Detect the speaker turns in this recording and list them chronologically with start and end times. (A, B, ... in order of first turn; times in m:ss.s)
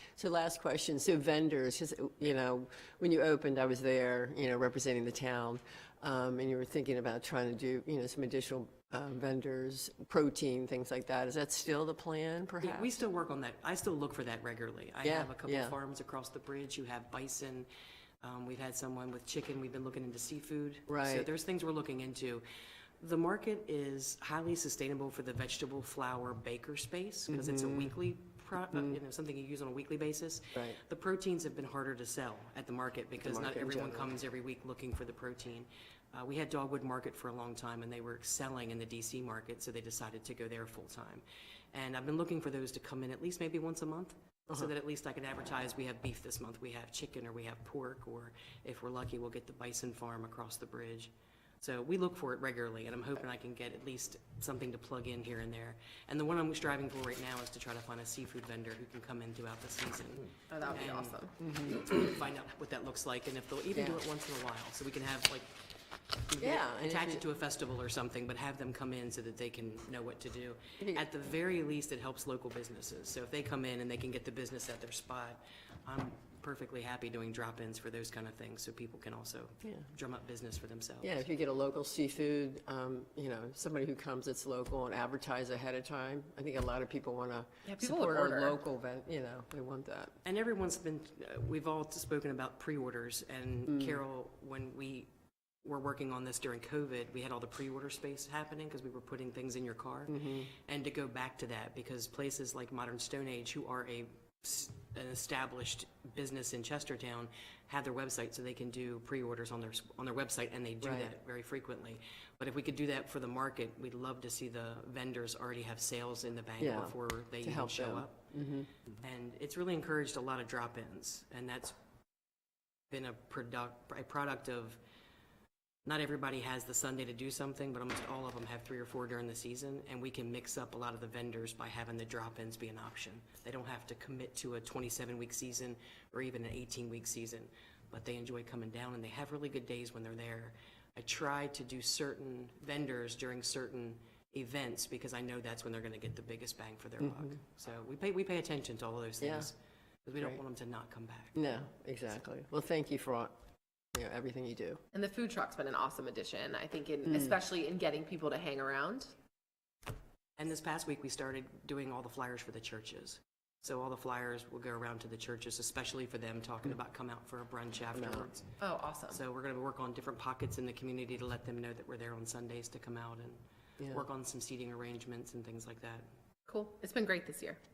0:00.2-0:12.9 A
0:12.6-0:17.7 B
0:15.0-0:15.8 A
0:18.2-0:22.4 B
0:20.9-0:21.3 A
0:23.0-1:05.5 B
0:27.3-0:27.9 A
0:33.2-0:34.1 A
1:00.5-1:01.3 C
1:01.4-1:01.8 A
1:03.7-1:04.0 A
1:06.3-1:21.1 B
1:06.4-1:07.2 A
1:10.8-1:11.0 A
1:21.0-1:30.1 A
1:27.6-1:28.5 C
1:30.2-1:35.1 B
1:33.7-1:34.0 A
1:35.6-1:58.3 B
1:40.1-1:40.5 A
1:50.8-1:51.1 A
1:56.6-1:58.7 A
1:58.9-2:01.7 B
2:02.9-2:04.8 B
2:05.8-2:29.5 B
2:27.0-2:27.4 A
2:29.2-2:29.5 A
2:30.0-2:31.4 B
2:31.3-2:33.3 A
2:33.9-2:34.8 A
2:34.9-2:39.1 C
2:37.0-2:37.4 A
2:40.4-2:48.5 B
2:47.9-2:48.3 A
2:48.6-2:49.2 C
2:49.1-2:56.0 B
2:53.8-2:54.0 A
2:56.5-2:57.6 C